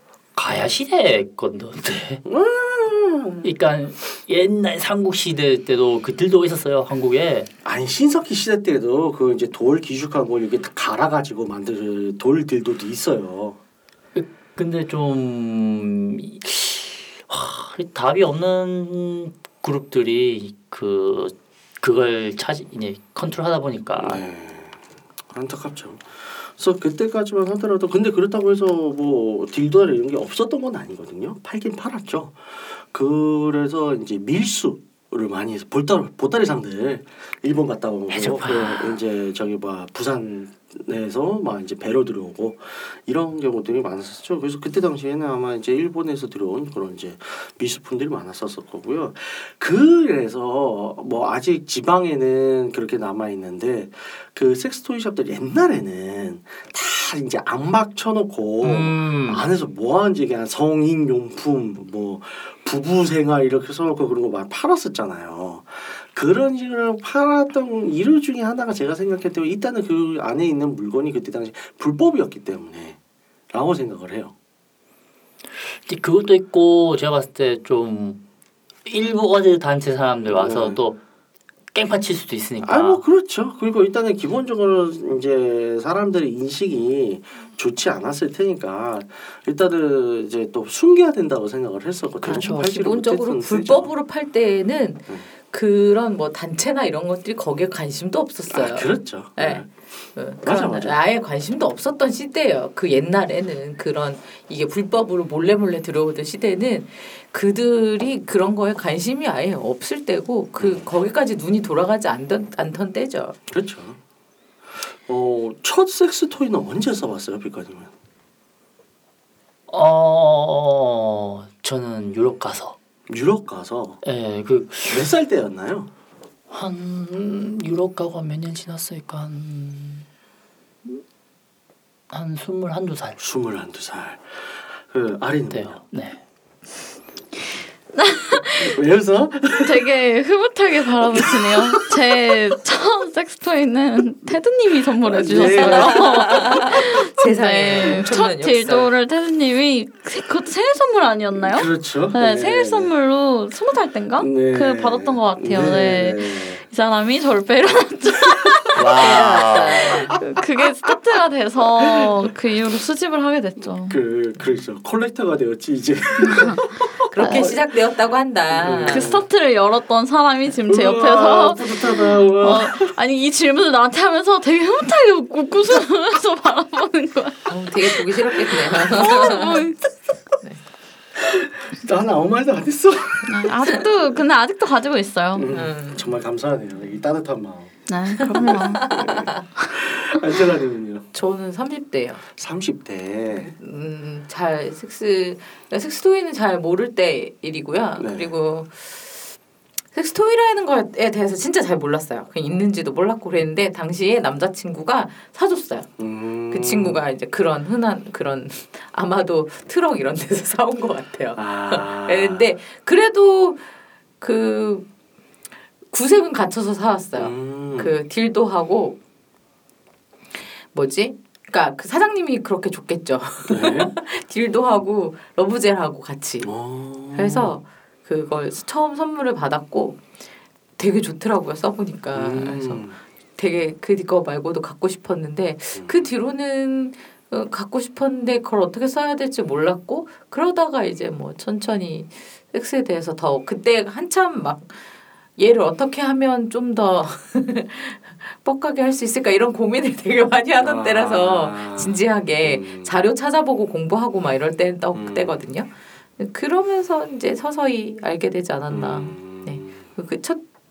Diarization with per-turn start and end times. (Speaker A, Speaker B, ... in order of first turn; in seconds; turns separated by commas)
Speaker A: 0.3-2.2, Speaker B: 2.2-3.5, Speaker A: 3.4-7.5, Speaker B: 7.6-13.6, Speaker A: 14.1-24.2, Speaker B: 24.0-24.8, Speaker B: 25.3-73.0, Speaker A: 38.1-39.0, Speaker A: 58.6-59.4, Speaker B: 73.5-74.3, Speaker A: 75.8-78.2, Speaker A: 78.8-81.0, Speaker B: 80.3-80.8, Speaker A: 81.7-83.0, Speaker B: 82.6-93.9, Speaker C: 92.3-113.3, Speaker B: 98.5-99.7, Speaker B: 100.4-101.0, Speaker B: 110.6-110.8, Speaker B: 113.5-114.0, Speaker B: 114.7-117.9, Speaker A: 119.7-122.8, Speaker B: 123.1-124.0, Speaker A: 124.0-125.1, Speaker B: 124.9-125.9, Speaker A: 126.5-130.1, Speaker A: 132.1-133.2, Speaker B: 133.2-135.8, Speaker A: 135.5-136.2, Speaker D: 138.0-138.7, Speaker B: 138.6-139.9, Speaker D: 139.6-163.9, Speaker B: 141.1-142.0, Speaker B: 145.0-146.8, Speaker C: 145.3-148.9, Speaker B: 151.4-152.9, Speaker B: 154.2-156.6, Speaker A: 158.7-160.2, Speaker C: 159.0-159.9, Speaker B: 161.8-162.1, Speaker B: 163.8-167.7, Speaker D: 166.2-166.6, Speaker C: 167.1-169.1, Speaker B: 168.5-169.2, Speaker D: 168.9-178.1, Speaker B: 170.7-172.9, Speaker C: 177.5-179.6, Speaker D: 178.7-179.8, Speaker B: 181.2-183.8, Speaker D: 183.3-185.4, Speaker B: 185.3-187.7, Speaker C: 185.5-186.1, Speaker D: 187.9-189.0, Speaker B: 188.3-191.1, Speaker C: 188.3-189.4, Speaker C: 191.1-192.2, Speaker B: 192.3-193.5, Speaker C: 193.3-199.0, Speaker B: 198.0-198.3, Speaker C: 199.9-205.9, Speaker B: 206.0-207.0, Speaker C: 206.5-213.6, Speaker B: 211.3-212.4, Speaker C: 214.2-214.9, Speaker C: 215.9-219.0, Speaker B: 217.2-218.0, Speaker C: 220.7-226.5, Speaker B: 223.5-223.9, Speaker B: 226.4-227.5, Speaker C: 227.1-230.0, Speaker C: 230.8-232.8, Speaker B: 232.1-233.0, Speaker C: 233.4-244.8, Speaker B: 235.8-236.1, Speaker C: 245.4-260.4, Speaker B: 250.6-252.9, Speaker B: 254.9-255.4, Speaker B: 258.7-259.8